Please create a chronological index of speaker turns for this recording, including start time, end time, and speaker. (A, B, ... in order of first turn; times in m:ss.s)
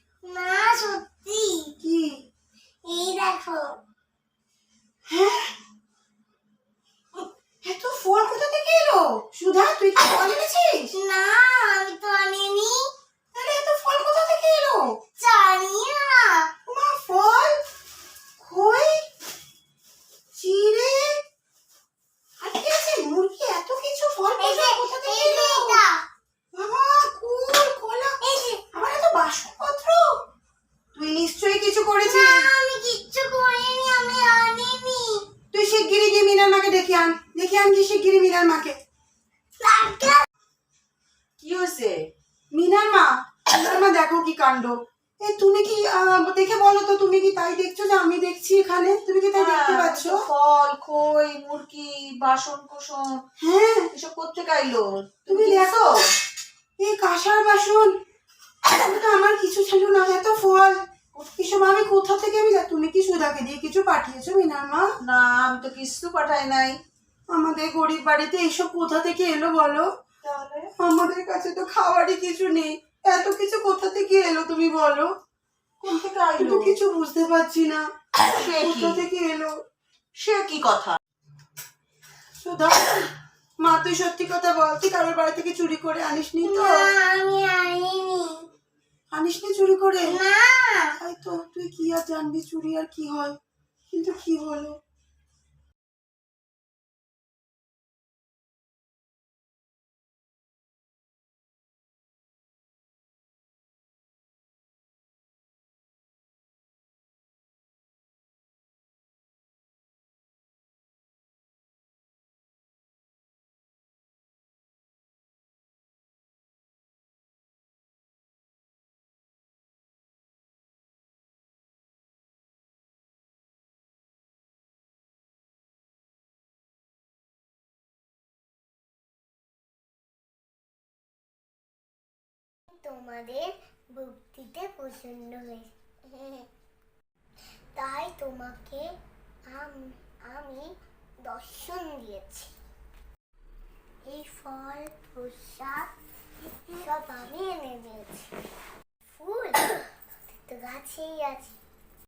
0:00.2-0:01.7 A
0:01.8-0:02.2 B
0:02.8-0:03.8 A
0:05.1-0:05.5 B
0:07.6-0:10.9 B
0:10.9-0:12.9 A
0:13.3-0:14.8 B
0:15.2-0:16.5 A
0:16.6-0:17.6 B
0:18.4-0:19.0 B
0:20.3-0:21.1 B
0:22.4-0:25.8 B
0:24.4-0:26.0 A
0:26.5-0:28.1 B
0:28.2-0:28.6 A
0:28.7-0:30.1 B
0:30.9-0:32.5 B
0:32.0-0:35.2 A
0:35.5-0:38.7 B
0:39.6-0:40.2 A
0:41.4-0:42.1 C
0:42.5-0:50.2 B
0:49.4-0:53.2 C
0:53.4-0:53.9 B
0:53.9-0:55.8 C
0:55.3-0:55.9 B
0:56.8-0:57.9 B
0:58.6-1:04.8 B
1:05.0-1:06.8 C
1:07.3-1:09.9 B
1:10.2-1:10.7 C
1:10.7-1:15.1 B
1:15.8-1:16.8 C
1:15.9-1:17.8 B
1:18.1-1:19.0 C
1:18.6-1:19.5 B
1:20.2-1:21.0 C
1:22.4-1:23.1 B
1:23.6-1:26.9 B
1:26.4-1:28.4 A
1:29.1-1:30.2 B
1:30.0-1:30.9 A
1:31.0-1:33.4 B
1:33.9-1:34.7 B
2:12.7-2:16.5 A
2:17.7-2:19.0 A
2:19.5-2:22.5 A
2:24.0-2:25.9 A
2:26.6-2:28.3 A
2:29.1-2:29.9 A
2:30.5-2:31.5 A